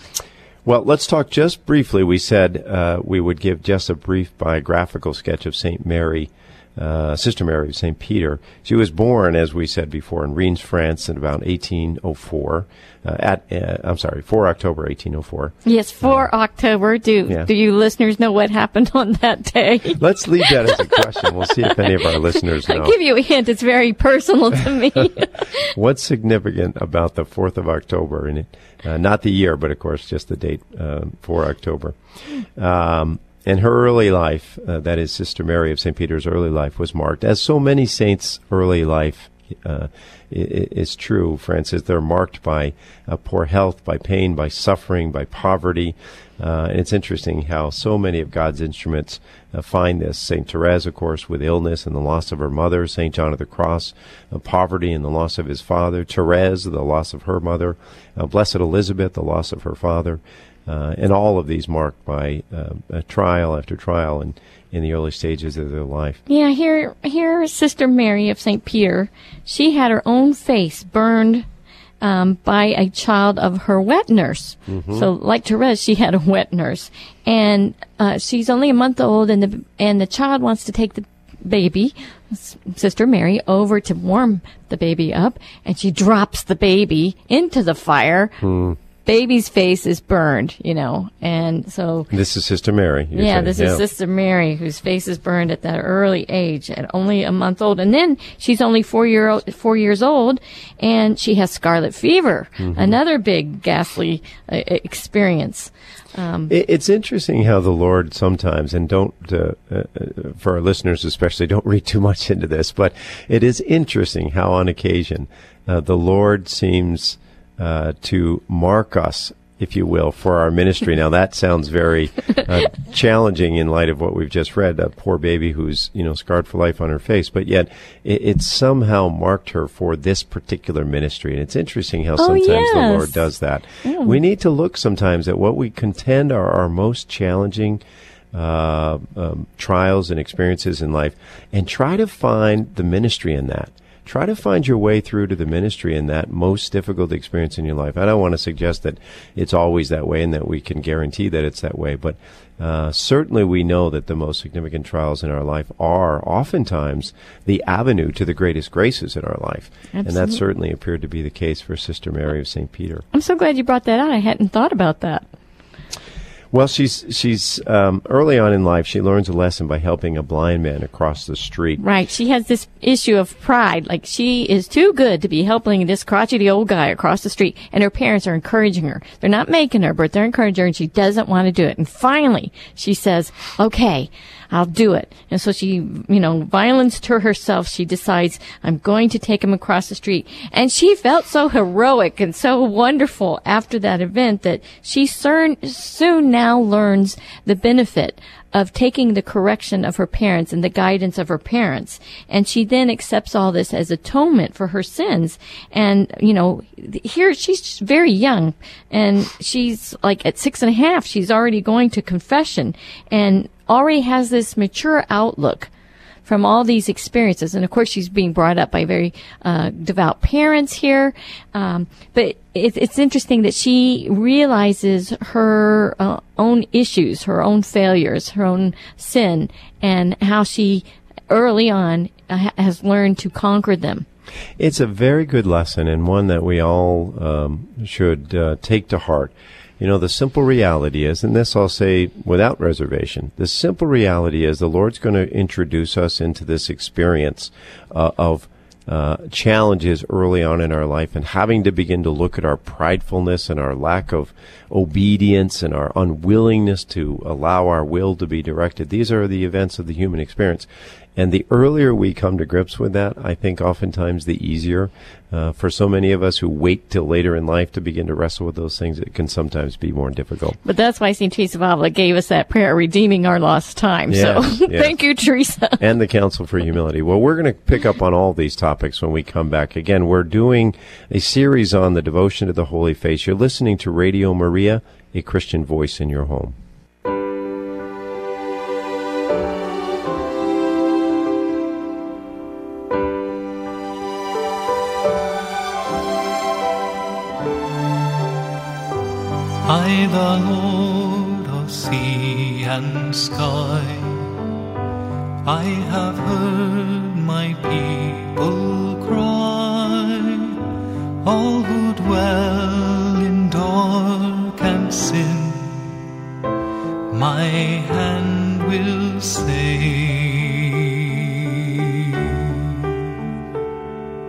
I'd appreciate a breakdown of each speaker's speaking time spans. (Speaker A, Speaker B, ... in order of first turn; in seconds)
Speaker A: 0.7-16.3, 19.9-22.9, 25.6-31.9, 32.5-66.2, 74.7-75.0, 88.4-88.8, 92.1-93.8, 102.6-103.0, 106.5-137.8, 138.3-163.0, 166.5-171.8, 234.6-270.6, 274.1-274.9, 275.8-286.6
Speaker B: 15.6-21.0, 21.6-21.9, 22.6-25.7, 66.3-71.5, 72.0-88.4, 89.0-92.1, 93.1-106.5, 132.2-133.3, 133.8-134.2, 159.9-160.4, 163.1-165.3, 171.8-215.7, 216.2-234.1, 270.6-275.8
Speaker C: 299.6-304.3, 305.4-310.6, 311.2-315.7, 317.1-322.9